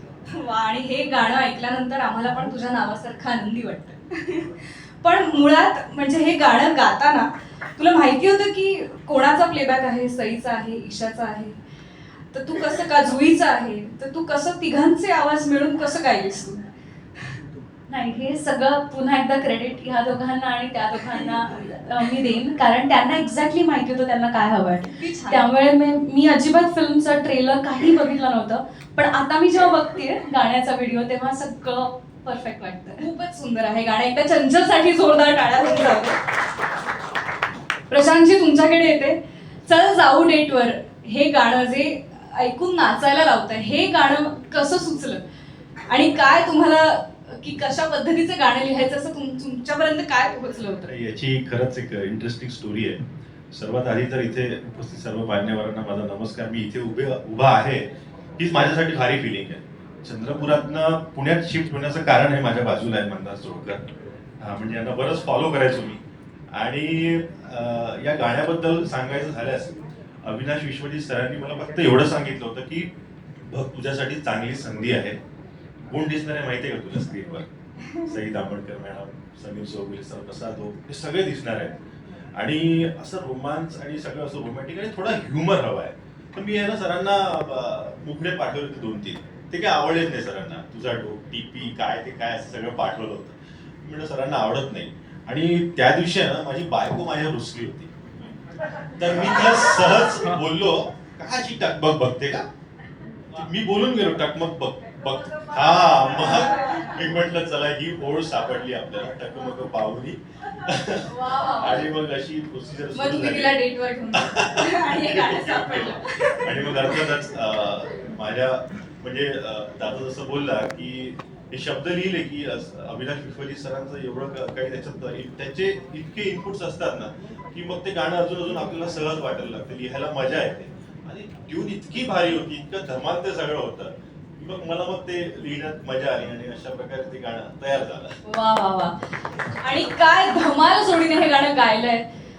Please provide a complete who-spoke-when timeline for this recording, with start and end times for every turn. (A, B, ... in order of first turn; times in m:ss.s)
0:00.3-0:11.6 A
0:12.3-0:16.6 A
0:17.9-0:33.0 B
0:24.9-0:25.4 A
0:33.0-0:36.2 A
0:37.9-0:45.2 A
0:45.9-0:50.9 A
0:50.9-0:53.0 C
0:53.5-0:57.9 C
0:58.4-1:03.8 C
1:04.4-1:06.0 C
1:06.5-1:12.9 C
1:13.5-1:15.2 C
1:15.9-1:17.5 C
1:18.1-1:21.8 C
1:22.3-1:37.9 C
1:39.0-1:42.4 C
1:43.3-1:53.6 C
1:51.1-1:51.8 A
1:52.9-1:57.0 A
1:54.1-2:18.1 C
2:18.2-2:18.9 A
2:19.6-2:22.0 A